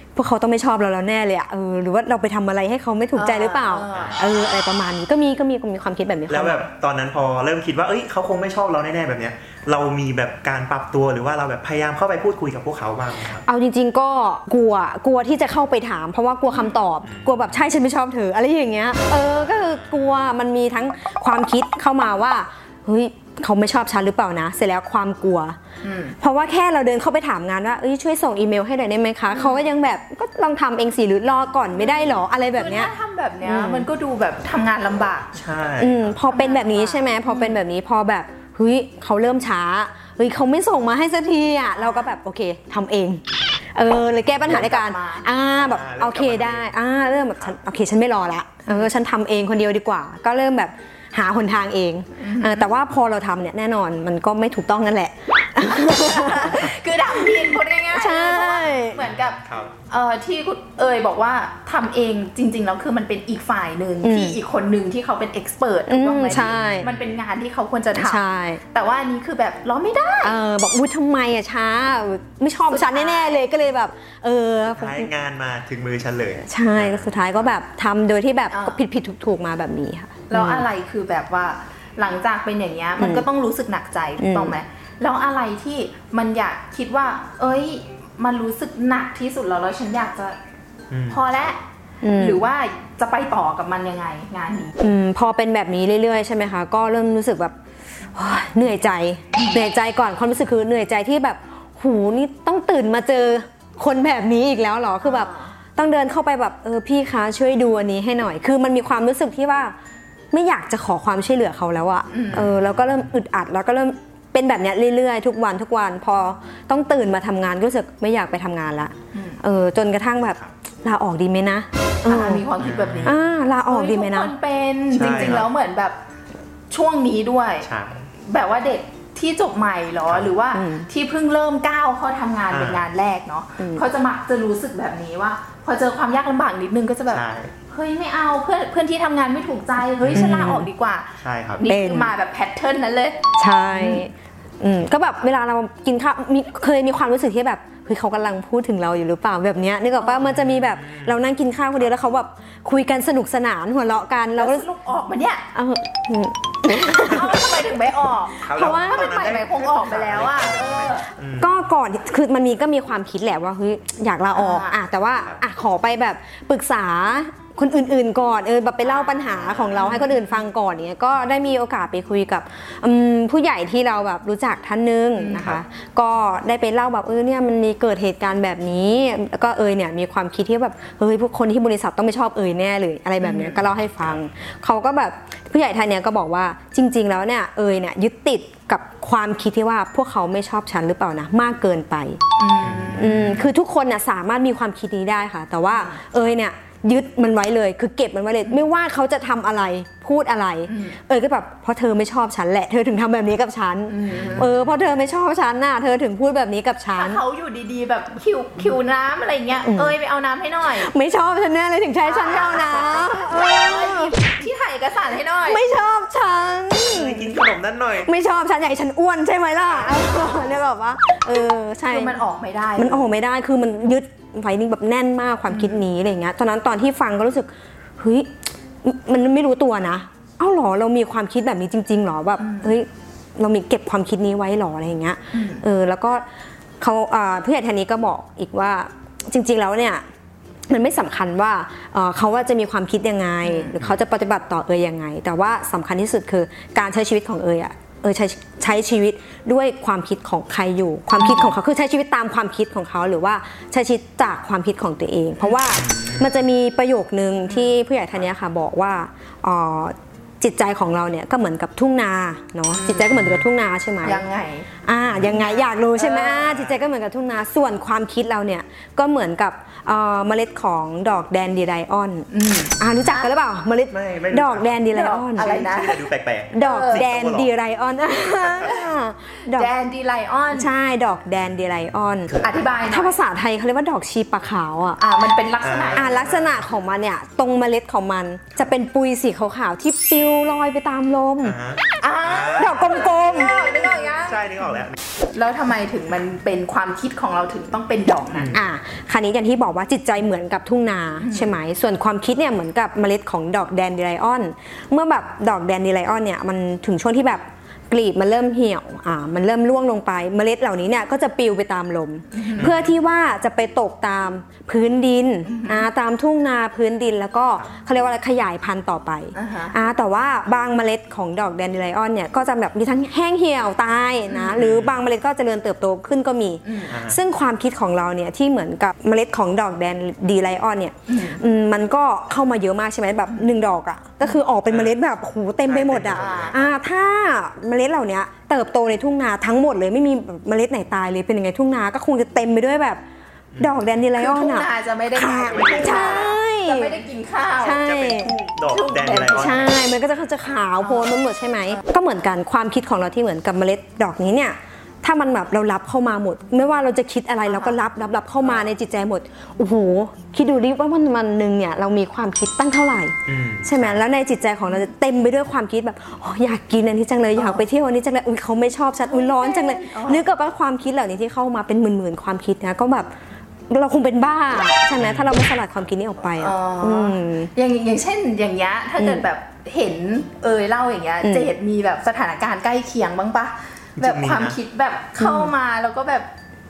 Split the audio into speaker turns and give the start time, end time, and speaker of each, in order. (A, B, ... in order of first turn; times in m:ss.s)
0:00.1-0:06.6 A
0:03.1-0:04.2 B
0:03.9-0:04.2 C
0:06.3-0:13.4 C
0:13.4-0:25.6 A
0:17.0-0:17.6 C
0:19.5-0:20.1 C
0:25.8-0:26.2 B
0:26.2-0:32.9 A
0:29.3-0:29.6 B
0:31.8-0:35.4 B
0:33.4-0:33.9 A
0:35.3-0:36.2 C
0:35.8-0:56.7 A
0:36.3-0:37.6 B
0:41.8-0:42.1 B
0:44.4-0:45.3 B
0:45.6-0:46.7 C
0:52.2-0:52.7 B
0:55.7-0:59.4 B
0:57.9-0:59.0 A
0:59.0-0:59.7 C
0:59.9-1:10.3 B
1:04.0-1:04.4 A
1:05.9-1:06.9 A
1:06.3-1:07.1 C
1:08.0-1:08.6 A
1:10.2-1:15.1 A
1:12.7-1:13.4 B
1:14.7-1:17.5 C
1:16.4-1:20.6 A
1:18.5-1:18.8 B
1:20.3-1:30.4 B
1:23.0-1:23.2 A
1:24.2-1:24.6 A
1:30.9-1:31.4 C
1:31.1-1:31.6 B
1:32.0-1:32.4 A
1:32.1-1:34.8 B
1:34.8-1:37.6 A
1:38.1-1:49.7 A
1:39.3-1:39.6 B
1:45.0-1:45.5 B
1:50.3-2:02.5 A
1:52.1-1:52.5 B
1:52.3-1:52.8 C
1:59.1-1:59.4 B
2:02.0-2:06.0 B
2:02.6-2:03.2 C
2:03.0-2:04.3 A
2:04.9-2:05.5 C
2:06.7-2:07.6 B
2:07.6-2:08.1 C
2:08.2-2:24.0 B
2:10.1-2:10.3 C
2:10.5-2:10.9 A
2:12.5-2:12.8 C
2:13.6-2:13.8 A
2:17.1-2:17.5 C
2:20.0-2:20.4 C
2:20.1-2:20.7 A
2:21.2-2:21.6 C
2:21.7-2:22.1 A
2:23.4-2:34.6 A
2:30.2-2:31.1 C
2:34.4-2:35.4 B
2:35.5-2:37.6 A
2:36.9-2:41.1 B
2:38.4-2:41.5 C
2:38.5-2:39.2 A
2:41.4-3:12.2 A
2:44.3-2:44.8 B
2:48.8-2:50.2 B
2:49.3-2:50.0 C
2:55.2-2:55.5 B
3:03.2-3:03.6 B
3:12.4-3:13.5 B
3:12.6-3:13.2 C
3:13.0-3:27.2 A
3:15.7-3:16.0 B
3:20.7-3:21.0 B
3:23.9-3:24.5 B
3:24.1-3:24.7 C
3:27.0-3:30.9 B
3:29.6-3:29.9 A
3:30.7-3:34.2 A
3:32.0-3:35.6 B
3:35.5-3:37.4 A
3:36.8-3:38.1 C
3:38.0-3:42.2 A
3:41.8-3:43.1 B
3:42.8-3:56.2 A
3:45.5-3:45.8 B
3:52.4-3:52.7 B
3:55.3-3:55.6 B
3:56.8-4:00.0 A
4:00.7-4:24.2 A
4:03.4-4:03.8 B
4:11.2-4:11.5 B
4:15.7-4:16.3 C
4:22.7-4:23.2 B
4:23.1-4:23.4 C
4:24.0-4:24.7 B
4:24.8-4:32.3 A
4:25.1-4:25.4 C
4:25.3-4:26.4 B
4:26.4-4:26.8 C
4:32.3-4:33.3 B
4:32.8-4:35.5 A
4:33.9-4:34.8 C
4:34.9-4:36.0 B
4:35.4-4:37.5 C
4:36.5-4:39.7 A
4:36.6-4:37.0 B
4:39.5-4:40.7 B
4:40.5-4:42.3 A
4:42.3-4:42.6 C
4:42.4-4:43.1 B
4:42.9-4:45.0 A
4:45.0-4:46.2 B
4:45.6-4:46.6 C
4:45.9-4:51.6 A
4:51.4-4:55.0 C
4:52.0-4:54.8 B
4:52.6-4:53.5 A
4:55.3-4:58.6 B
4:58.3-4:58.6 C
4:58.5-5:43.0 A
5:01.2-5:01.5 B
5:12.3-5:12.7 B
5:12.6-5:12.9 C
5:15.4-5:15.9 B
5:19.3-5:19.8 B
5:24.3-5:24.6 B
5:24.6-5:25.0 C
5:26.6-5:26.9 B
5:26.9-5:27.2 C
5:31.1-5:31.4 B
5:33.3-5:33.5 B
5:35.6-5:36.7 C
5:36.1-5:36.6 B
5:43.5-5:43.8 C
5:43.6-5:47.0 A
5:44.2-5:47.8 B
5:45.5-5:46.2 C
5:47.6-5:48.3 A
5:47.8-5:49.9 C
5:48.7-5:49.7 B
5:49.2-6:13.1 A
5:50.8-5:51.1 B
5:57.5-5:57.8 B
6:03.3-6:04.0 C
6:07.4-6:07.6 B
6:09.1-6:10.2 B
6:13.7-6:17.5 A
6:15.0-6:15.3 C
6:16.4-6:26.3 B
6:19.0-6:19.2 A
6:21.2-6:21.5 A
6:24.0-6:24.6 C
6:25.2-6:25.5 A